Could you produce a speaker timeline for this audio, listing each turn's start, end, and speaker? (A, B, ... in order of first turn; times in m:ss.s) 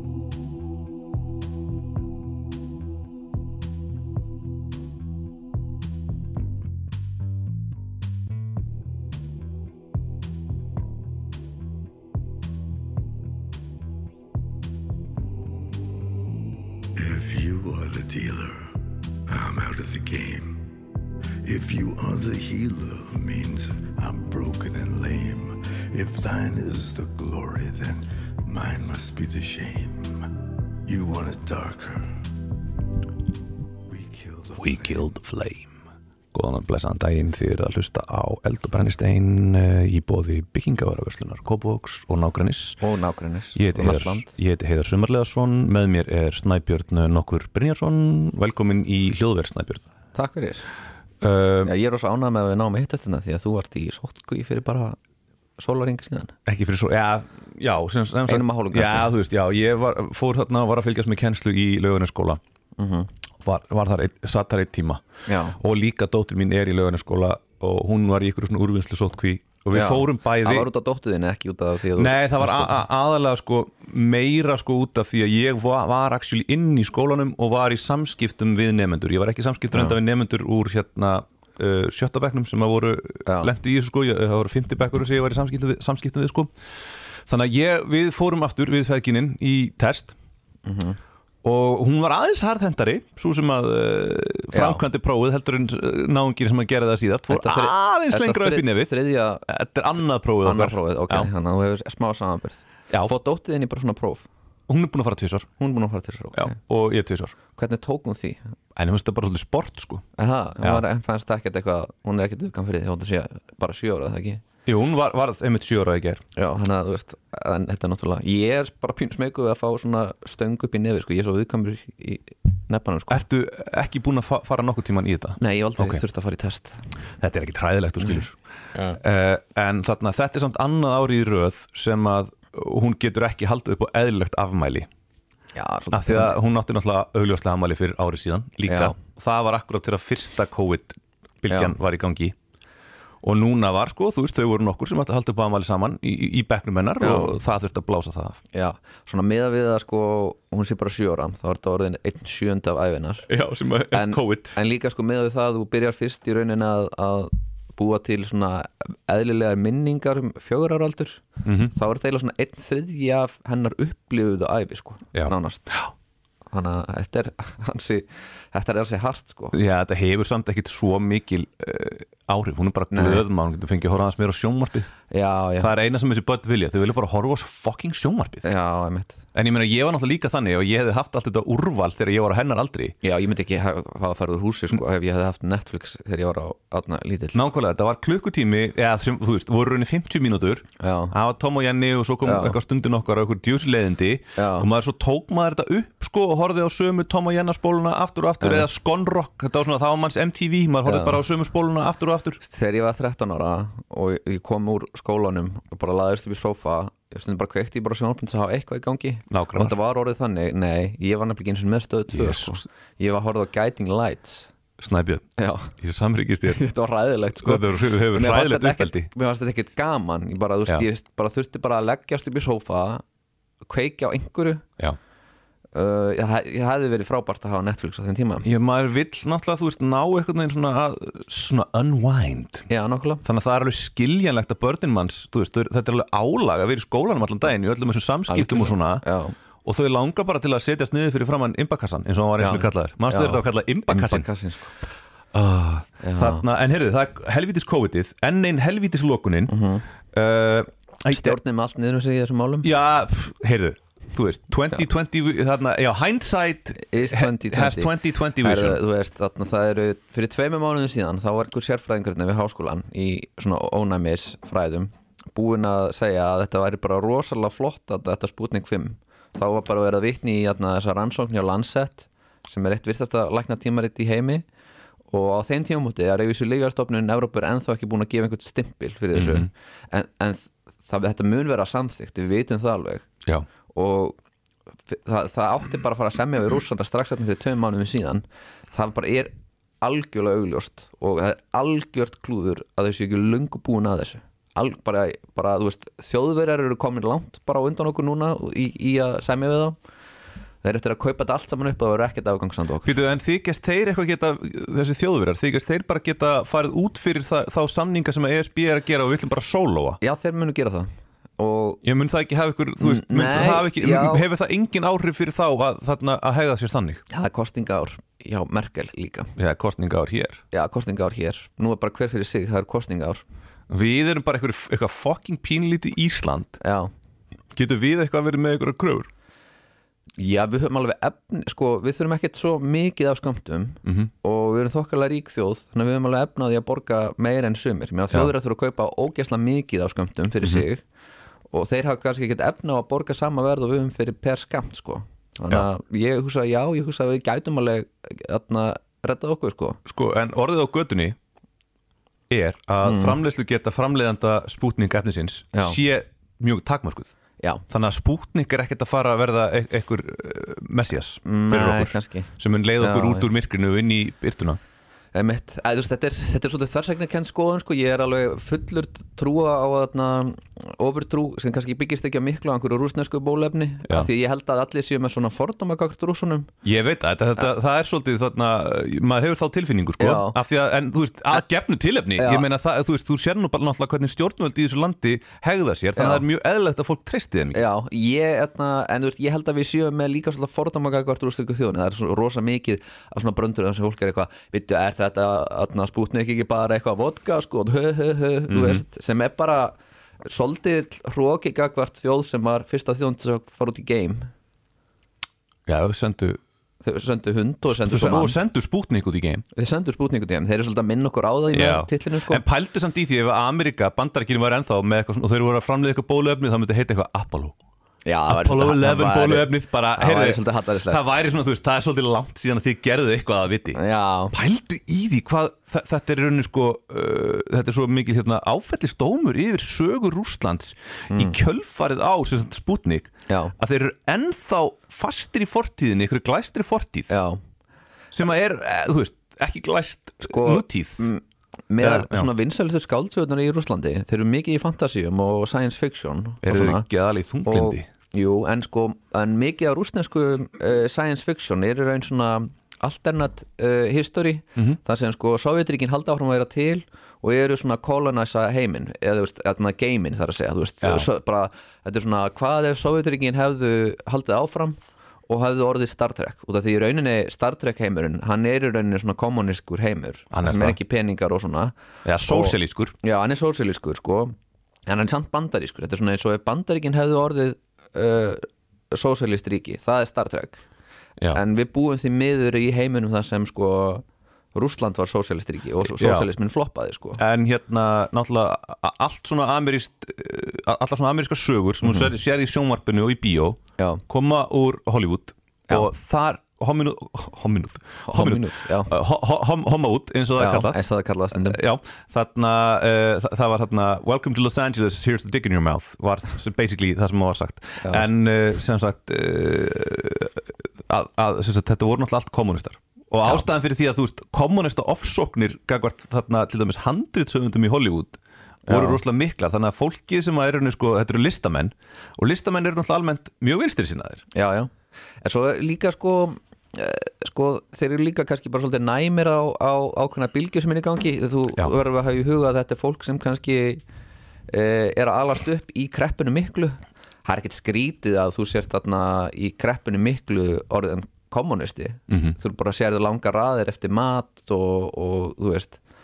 0:17.0-0:18.7 A
0:19.3-0:20.6 A
0:21.4-0:30.3 A
0:30.9-0:32.2 A
0:33.9-0:35.0 A
0:34.6-0:35.7 B
0:36.3-0:42.8 B
0:42.8-0:44.3 C
0:43.6-0:49.9 B
0:50.2-0:50.7 C
0:51.2-0:51.7 B
0:51.6-0:55.0 C
0:55.6-0:56.3 C
0:56.5-1:02.4 B
0:58.3-0:59.1 C
1:02.8-1:03.1 C
1:03.4-1:05.0 B
1:05.3-1:05.6 C
1:05.6-1:10.7 B
1:09.7-1:12.8 C
1:12.0-1:26.5 B
1:27.3-1:30.1 B
1:30.7-1:31.0 C
1:31.4-1:38.9 B
1:34.5-1:34.8 C
1:37.3-1:39.4 C
1:39.5-1:41.3 B
1:40.4-1:44.3 C
1:42.9-1:43.2 B
1:44.7-1:45.5 B
1:45.6-1:46.6 C
1:46.3-1:47.4 B
1:47.6-1:48.4 C
1:48.8-1:50.0 B
1:50.2-1:54.4 C
1:54.7-1:56.2 B
1:56.4-2:03.2 C
2:03.1-2:06.0 B
2:05.4-2:06.8 C
2:07.2-2:08.4 B
2:09.0-2:14.9 B
2:15.6-2:16.4 C
2:15.9-2:22.4 B
2:18.7-2:19.0 C
2:23.2-2:28.4 B
2:27.0-2:27.4 C
2:28.5-2:33.3 C
2:33.3-2:34.6 B
2:33.9-2:45.7 C
2:41.4-2:41.7 B
2:45.1-2:45.9 B
2:46.5-2:49.5 C
2:49.5-2:54.9 B
2:52.9-2:53.2 C
2:55.1-2:55.7 C
2:55.6-2:58.5 B
2:58.4-2:59.2 C
2:59.3-3:03.0 B
3:03.0-3:07.4 C
3:07.3-3:22.4 B
3:10.8-3:11.1 C
3:12.2-3:12.6 C
3:14.4-3:14.7 C
3:18.4-3:18.7 C
3:20.8-3:21.2 C
3:22.4-3:34.5 C
3:29.3-3:29.8 B
3:32.1-3:32.6 B
3:34.8-3:35.3 B
3:35.4-3:35.7 C
3:35.8-3:36.6 B
3:36.5-3:43.0 C
3:37.4-3:39.1 B
3:43.6-3:44.6 C
3:45.7-3:48.5 C
3:48.4-3:52.7 B
3:52.7-3:53.2 C
3:53.2-3:59.0 B
3:58.3-3:59.4 C
3:59.6-4:04.3 B
4:02.4-4:04.7 C
4:05.3-4:09.5 B
4:06.0-4:06.4 C
4:09.5-4:09.8 C
4:10.1-4:11.4 B
4:11.1-4:12.7 C
4:12.6-4:18.8 B
4:16.8-4:34.4 C
4:35.1-4:43.1 C
4:39.1-4:39.5 B
4:43.7-4:44.2 C
4:44.9-4:59.8 C
5:00.6-5:02.9 C
5:02.8-5:10.0 B
5:10.0-5:11.8 C
5:11.8-5:17.0 B
5:12.8-5:14.2 C
5:17.1-5:19.3 C
5:19.4-5:20.4 B
5:20.5-5:23.2 C
5:23.7-5:26.6 B
5:26.6-5:26.9 C
5:27.5-5:29.1 B
5:30.2-5:40.8 C
5:33.8-5:34.1 B
5:41.5-5:49.8 C
5:49.9-5:51.2 B
5:52.3-5:57.1 B
5:52.8-5:53.2 C
5:57.7-6:04.6 B
6:01.2-6:03.3 C
6:05.1-6:16.5 C
6:16.6-6:27.7 B
6:20.0-6:20.4 C
6:22.2-6:22.5 C
6:26.0-6:26.2 C
6:27.5-6:44.3 C
6:38.5-6:38.8 B
6:45.7-6:46.4 B
6:46.8-6:48.4 C
6:47.7-6:49.4 B
6:49.6-6:52.4 C
6:51.5-6:57.6 B
6:58.0-7:01.0 C
6:58.3-7:03.8 B
7:03.7-7:04.3 C
7:04.3-7:17.1 B
7:11.1-7:11.4 C
7:13.3-7:13.5 C
7:17.1-7:17.4 C
7:18.1-7:21.1 B
7:20.2-7:26.9 C
7:21.8-7:22.3 B
7:26.4-7:27.8 B
7:27.4-7:51.7 C
7:40.8-7:41.1 B
7:50.3-7:50.8 B
7:52.0-7:52.9 B
7:52.3-7:54.4 C
7:54.9-8:00.6 C
8:01.3-8:07.2 C
8:05.9-8:06.3 B
8:07.2-8:20.8 B
8:11.8-8:12.1 C
8:18.1-8:18.9 C
8:20.4-8:21.6 C
8:21.3-8:44.2 B
8:38.7-8:39.0 C
8:44.3-8:53.8 C
8:54.5-9:05.8 C
9:02.1-9:02.4 B